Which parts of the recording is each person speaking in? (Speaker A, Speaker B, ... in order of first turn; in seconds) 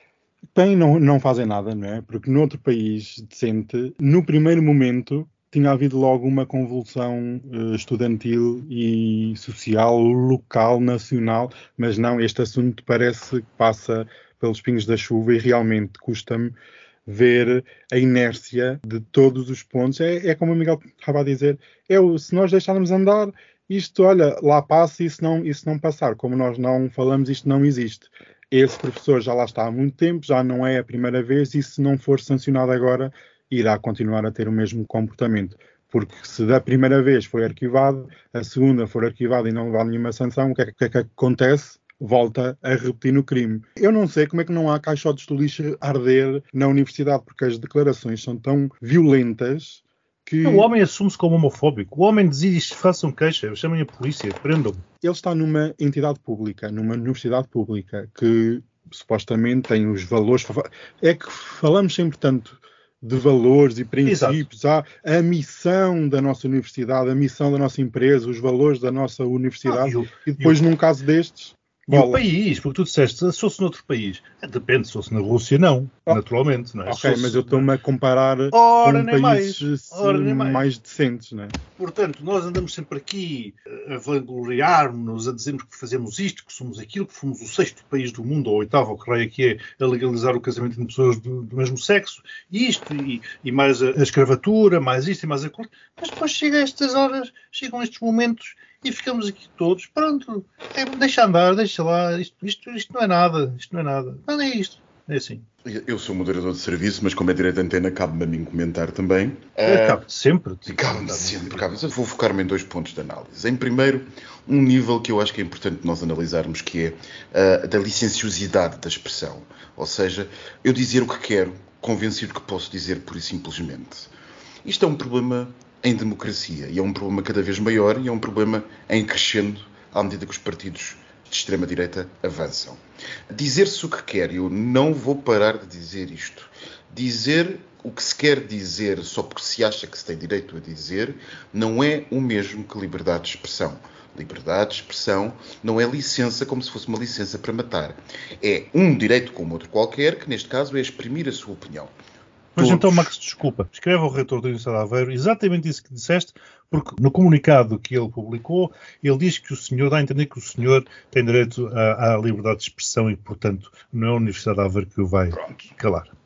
Speaker A: 0.5-50.7, 55.0-72.2, 76.8-81.6
Speaker B: 50.4-54.8, 64.0-64.4, 69.7-70.6, 71.9-77.7, 78.5-80.7, 81.8-105.4, 109.6-111.7, 152.6-166.1
Speaker C: 105.6-110.0, 110.7-124.1, 124.6-151.9, 152.6-153.1, 165.3-165.7